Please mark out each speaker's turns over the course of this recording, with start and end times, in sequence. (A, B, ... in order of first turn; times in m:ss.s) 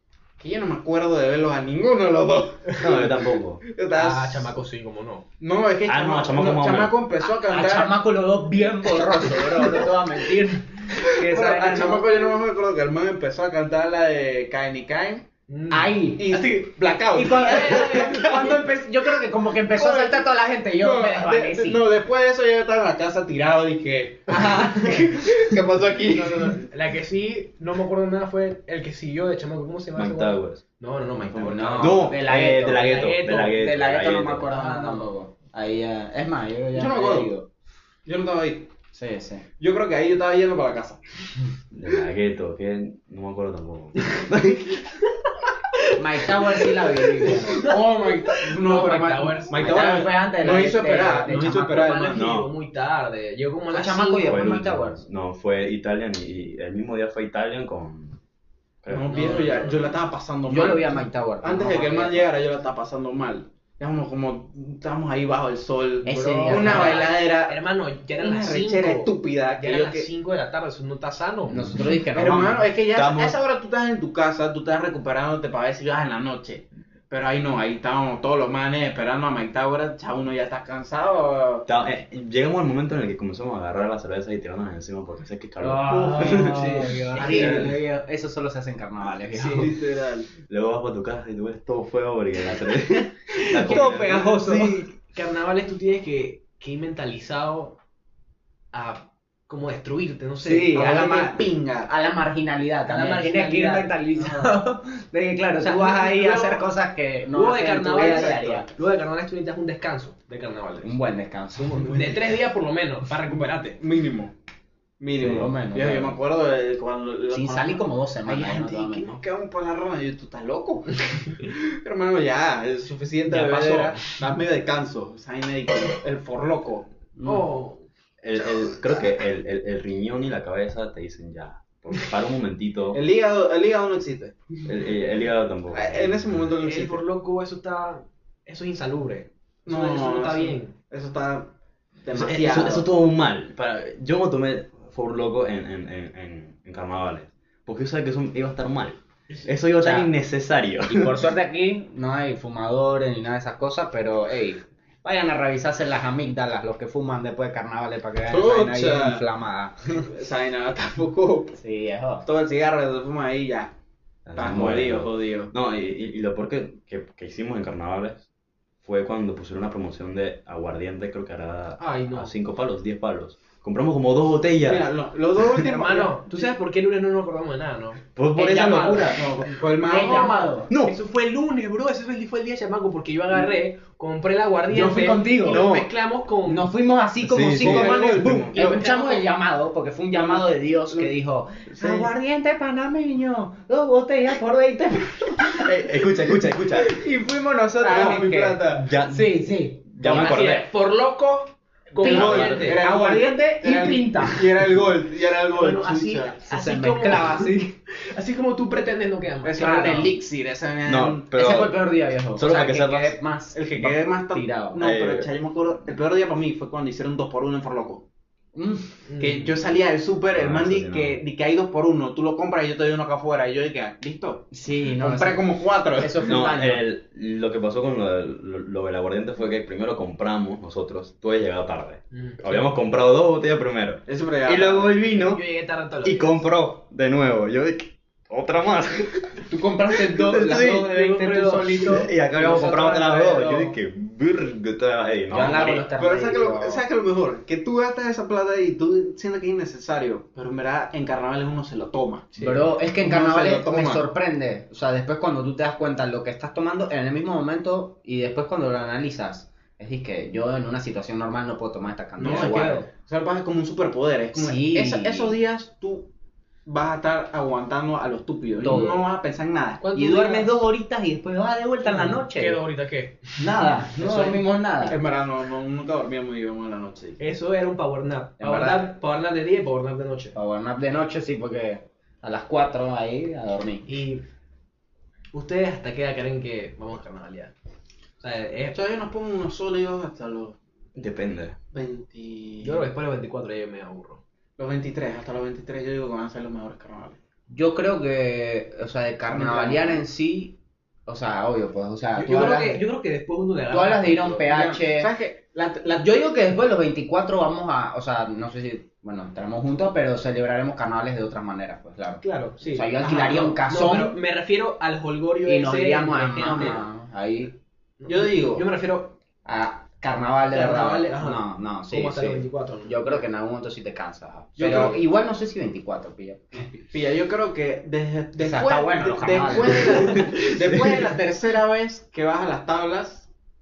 0:00.4-0:04.5 A
0:02.8-0:03.6 B
0:03.9-0:05.2 C
0:05.4-0:08.0 A
0:05.9-0:06.9 B
0:07.4-0:12.3 D
0:09.1-0:09.9 A
0:11.0-0:15.2 A
0:15.5-0:16.5 C
0:15.7-0:16.5 D
0:16.2-0:18.7 A
0:17.1-0:21.8 D
0:17.4-0:18.2 C
0:19.7-0:20.2 A
0:20.8-0:26.6 A
0:24.3-0:24.8 D
0:24.3-0:25.0 C
0:26.1-0:32.1 C
0:30.0-0:30.6 B
0:31.2-0:34.5 B
0:31.4-0:37.5 D
0:32.7-0:33.6 C
0:34.5-0:35.1 C
0:36.7-0:37.3 A
0:38.0-0:38.7 A
0:38.9-0:39.4 D
0:39.6-0:41.0 A
0:41.7-0:44.9 B
0:45.8-0:47.8 C
0:46.0-0:47.7 D
0:47.5-0:52.3 A
0:48.3-0:49.9 C
0:49.5-0:52.0 D
0:51.7-0:54.4 C
0:52.1-0:52.5 B
0:53.7-0:55.0 D
0:54.2-0:58.2 B
0:58.8-0:59.6 B
0:58.9-1:07.6 A
1:00.5-1:02.3 D
1:06.0-1:07.1 D
1:06.4-1:11.8 C
1:08.2-1:10.1 A
1:11.5-1:12.7 D
1:12.1-1:21.7 A
1:12.9-1:13.4 B
1:21.7-1:27.7 B
1:25.6-1:29.8 D
1:25.9-1:26.5 C
1:26.2-1:27.5 A
1:27.1-1:27.7 C
1:29.3-1:29.7 C
1:29.4-1:30.3 A
1:30.5-1:34.6 B
1:33.5-1:37.8 C
1:33.6-1:34.7 D
1:38.7-1:41.0 C
1:40.4-1:48.7 D
1:40.7-1:41.9 A
1:42.8-1:44.6 C
1:45.6-1:46.6 C
1:47.3-1:51.0 C
1:48.0-1:48.6 A
1:50.8-1:52.2 D
1:51.6-1:53.8 C
1:53.3-1:54.3 A
1:55.0-1:57.9 A
1:55.2-1:55.5 B
1:55.2-1:56.2 D
1:57.3-1:59.1 D
1:58.2-1:59.1 C
1:58.9-2:06.9 A
2:07.2-2:07.5 D
2:07.2-2:07.8 C
2:08.2-2:13.0 B
2:08.4-2:08.9 A
2:12.9-2:14.4 A
2:14.6-2:16.4 B
2:15.7-2:17.0 A
2:16.6-2:20.7 C
2:19.7-2:22.9 A
2:22.1-2:31.3 B
2:29.8-2:30.1 D
2:30.9-2:40.1 D
2:38.3-2:39.2 A
2:39.9-2:41.6 A
2:41.5-2:42.2 D
2:42.2-2:43.7 A
2:44.2-2:48.2 B
2:44.4-2:45.5 A
2:48.8-2:54.9 B
2:51.8-2:52.3 C
2:54.6-2:56.5 A
2:55.5-2:59.2 C
2:58.2-2:59.3 B
2:58.4-2:59.1 D
2:59.0-3:00.5 A
2:59.8-3:00.7 D
2:59.8-3:06.7 C
3:00.7-3:01.0 B
3:04.7-3:05.7 D
3:05.5-3:05.9 B
3:06.4-3:15.7 D
3:07.2-3:08.4 B
3:07.6-3:08.9 A
3:08.5-3:09.2 C
3:10.1-3:11.1 A
3:11.7-3:12.1 A
3:15.6-3:17.0 B
3:16.8-3:18.8 A
3:17.8-3:20.6 D
3:17.8-3:20.6 B
3:20.0-3:22.8 C
3:22.0-3:26.4 A
3:22.0-3:24.5 D
3:25.5-3:30.1 C
3:26.4-3:27.7 D
3:29.4-3:31.3 A
3:29.6-3:30.1 D
3:30.8-3:33.2 B
3:31.3-3:34.8 D
3:33.5-3:38.0 A
3:34.8-3:35.3 B
3:38.5-3:39.0 D
3:39.1-3:39.5 C
3:39.2-3:46.5 A
3:40.3-3:41.2 B
3:44.5-3:46.8 D
3:46.2-3:55.4 B
3:52.1-3:52.7 C
3:54.0-3:55.0 A
3:55.1-3:56.4 C
3:56.0-4:01.1 B
3:59.5-4:02.1 A
4:00.8-4:03.7 C
4:01.7-4:05.8 B
4:05.3-4:06.8 D
4:05.3-4:14.0 A
4:12.3-4:12.6 C
4:12.4-4:22.8 D
4:22.2-4:22.9 C
4:22.2-4:26.1 A
4:24.3-4:25.4 D
4:26.6-4:29.8 A
4:28.6-4:29.0 D
4:29.8-4:30.5 C
4:29.9-4:32.6 D
4:31.8-4:33.6 C
4:33.4-4:35.0 D
4:34.0-4:37.2 A
4:37.2-4:40.4 C
4:38.4-4:38.9 D
4:40.3-4:43.9 D
4:43.8-4:44.2 C
4:45.3-4:47.5 C
4:48.2-4:48.8 C
4:48.7-4:50.6 A
4:50.9-4:51.6 B
4:51.7-4:52.8 A
4:52.6-4:54.2 C
4:54.6-4:57.2 A
4:57.5-5:02.8 D
4:59.3-5:00.0 A
5:02.2-5:04.4 C
5:03.7-5:05.1 D
5:04.3-5:06.0 A
5:06.0-5:14.2 D
5:12.2-5:16.8 C
5:15.4-5:17.6 D
5:18.0-5:19.2 C
5:18.1-5:18.6 A
5:19.4-5:26.7 D
5:20.5-5:23.2 C
5:24.6-5:25.0 A
5:26.8-5:33.3 A
5:28.4-5:30.3 D
5:30.0-5:30.5 C